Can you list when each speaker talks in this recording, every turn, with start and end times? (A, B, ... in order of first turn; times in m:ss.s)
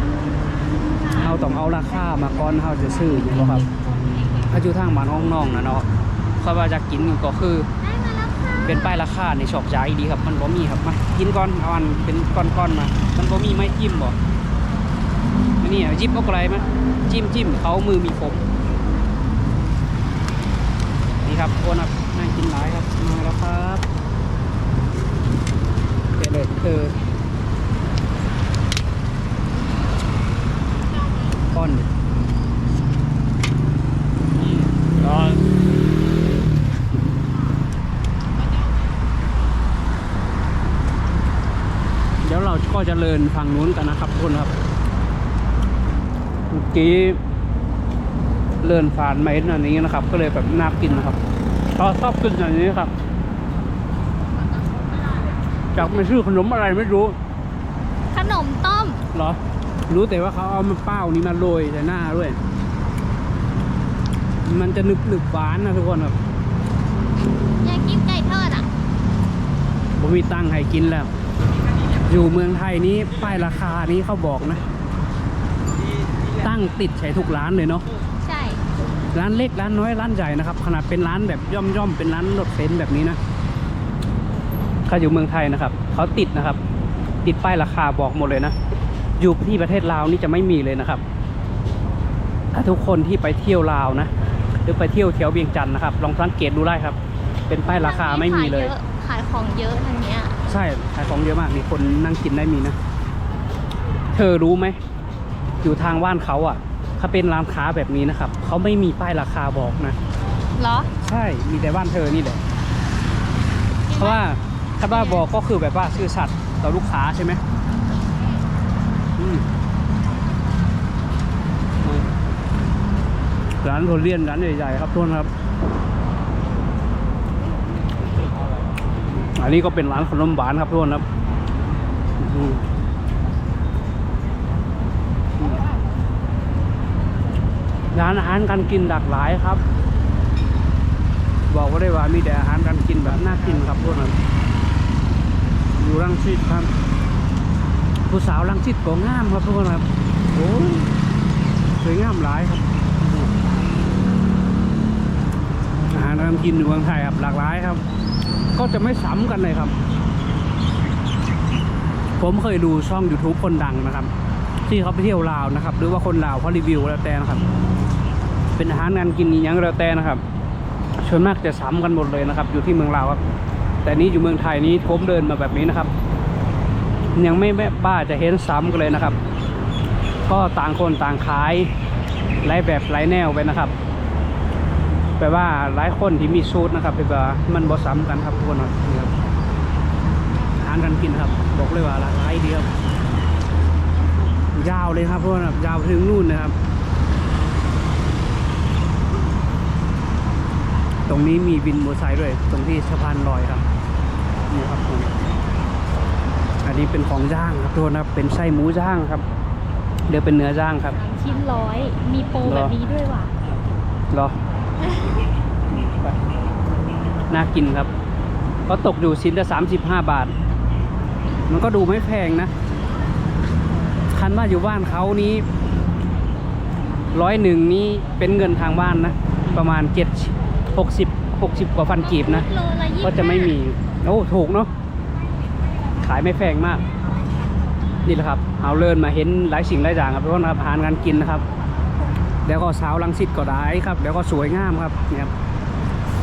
0:01.2-0:03.7 A
0:03.6-0:04.5 B
0:04.5-0:05.9 A
0:06.4-0:07.7 A
0:07.8-0:08.9 B
0:08.6-0:14.2 A
0:15.6-0:18.4 A
0:21.2-0:23.8 A
0:26.2-0:27.0 A
0:31.5-0:31.9 A
0:42.2-0:44.5 A
0:46.5-0:47.2 A
0:48.6-0:51.2 A
0:51.7-0:52.9 A
0:55.8-0:57.2 A
0:58.1-0:59.1 B
0:59.1-1:02.4 A
1:04.4-1:06.2 A
1:07.6-1:08.7 B
1:10.0-1:11.1 A
1:12.1-1:14.6 A
1:16.4-1:17.8 A
1:18.2-1:18.6 B
1:19.1-1:23.2 A
1:24.9-1:26.6 A
1:27.2-1:28.5 A
1:29.2-1:31.0 A
1:32.5-1:34.1 A
1:34.6-1:37.0 A
1:37.5-1:38.7 A
1:37.7-1:40.4 B
1:40.5-1:42.8 A
1:44.1-1:44.8 A
1:45.6-1:50.0 A
1:50.6-1:50.9 B
1:51.0-1:52.4 A
1:53.9-1:54.2 B
1:54.0-1:57.4 A
1:54.9-1:55.2 B
1:59.2-1:59.4 A
2:03.6-2:05.3 A
2:09.1-2:11.0 A
2:12.2-2:12.6 A
2:15.4-2:15.6 A
2:17.9-2:19.6 A
2:21.5-2:24.2 A
2:25.8-2:26.7 A
2:28.1-2:30.9 A
2:31.8-2:33.3 A
2:35.9-2:37.8 A
2:38.6-2:39.7 A
2:42.2-2:44.1 A
2:44.7-2:47.4 A
2:48.6-2:50.2 A
2:51.0-2:53.2 A
2:53.8-2:55.9 A
2:57.2-2:59.2 A
3:00.3-3:01.7 A
3:02.4-3:03.7 A
3:05.2-3:09.1 A
3:10.6-3:12.7 A
3:14.5-3:16.5 A
3:21.1-3:23.7 A
3:24.5-3:25.2 A
3:26.6-3:29.2 A
3:30.1-3:31.0 A
3:30.9-3:33.3 B
3:32.4-3:32.7 A
3:34.1-3:34.4 A
3:35.7-3:36.2 A
3:37.3-3:37.9 A
3:38.7-3:40.3 A
3:41.5-3:42.5 A
3:44.1-3:45.4 A
3:47.1-3:52.5 A
3:52.0-3:53.6 B
3:53.0-3:54.7 A
3:56.0-3:56.8 A
3:58.1-4:01.4 A
4:02.5-4:05.3 A